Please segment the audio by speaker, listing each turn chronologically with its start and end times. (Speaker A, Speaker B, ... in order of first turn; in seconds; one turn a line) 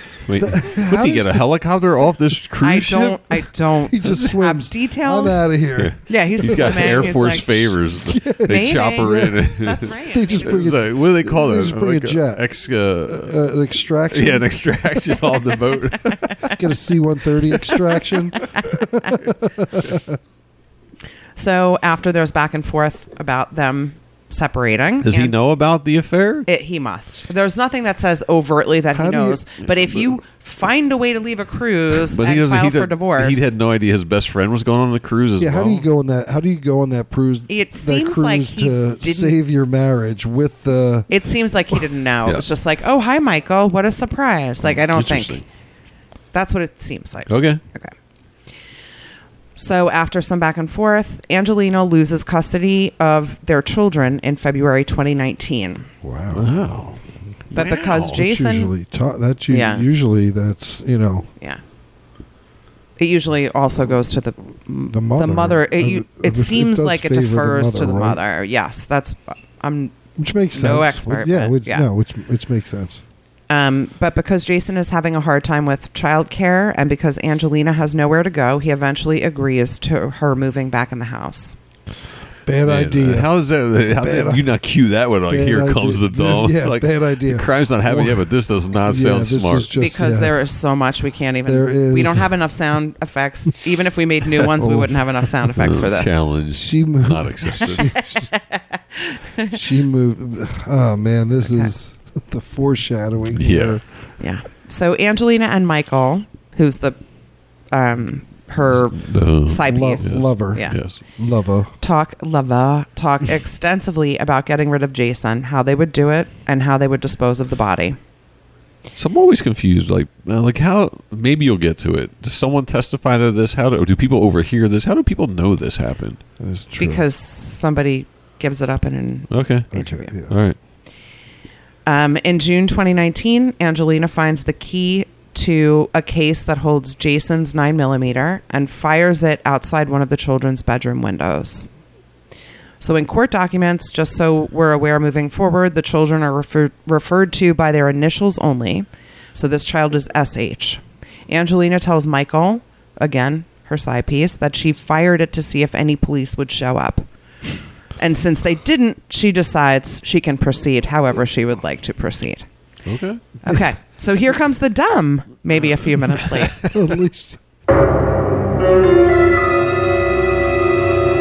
Speaker A: 0.2-3.4
Speaker B: 0.4-1.4
Speaker C: 2.6-5.5
Speaker B: 3.9-7.1
Speaker A: 5.8-13.4
Speaker C: 6.1-7.8
Speaker B: 8.0-12.4
Speaker C: 8.5-10.7
Speaker B: 13.1-14.5
Speaker A: 14.1-16.5
Speaker B: 16.5-20.2
Speaker C: 21.4-25.3
Speaker A: 25.0-26.5
Speaker C: 26.5-33.5
Speaker B: 28.9-29.4
Speaker A: 32.0-35.9
Speaker B: 35.4-41.1
Speaker C: 37.5-39.4
Speaker C: 41.1-45.4
Speaker A: 44.7-45.4
Speaker C: 46.3-47.9
Speaker A: 47.3-47.6
Speaker C: 49.6-55.9
Speaker B: 56.0-56.5
Speaker A: 56.3-57.0
Speaker A: 57.5-58.2
Speaker C: 57.5-58.7
Speaker B: 58.0-61.3
Speaker C: 59.5-59.9
Speaker C: 63.0-70.0
Speaker B: 64.9-68.2
Speaker B: 70.2-73.0
Speaker C: 70.5-71.9
Speaker C: 73.5-81.6
Speaker B: 82.4-83.3
Speaker A: 82.6-89.7
Speaker B: 83.9-84.4
Speaker B: 85.3-88.3
Speaker B: 88.8-90.3
Speaker C: 89.7-96.2
Speaker B: 91.5-92.3
Speaker B: 94.6-94.9
Speaker A: 95.6-98.0
Speaker B: 96.5-98.3
Speaker C: 97.7-99.6
Speaker B: 99.4-103.8
Speaker C: 101.4-101.7
Speaker A: 103.3-103.8
Speaker C: 104.2-107.0
Speaker C: 107.7-110.8
Speaker A: 108.9-111.0
Speaker B: 109.6-111.7
Speaker C: 111.8-118.0
Speaker A: 119.0-126.2
Speaker B: 126.4-127.0
Speaker C: 126.8-130.1
Speaker A: 129.3-130.6
Speaker B: 129.7-130.4
Speaker C: 131.8-141.7
Speaker C: 142.8-157.1
Speaker C: 158.0-162.4
Speaker A: 162.8-163.2
Speaker C: 163.4-166.6
Speaker B: 166.6-167.4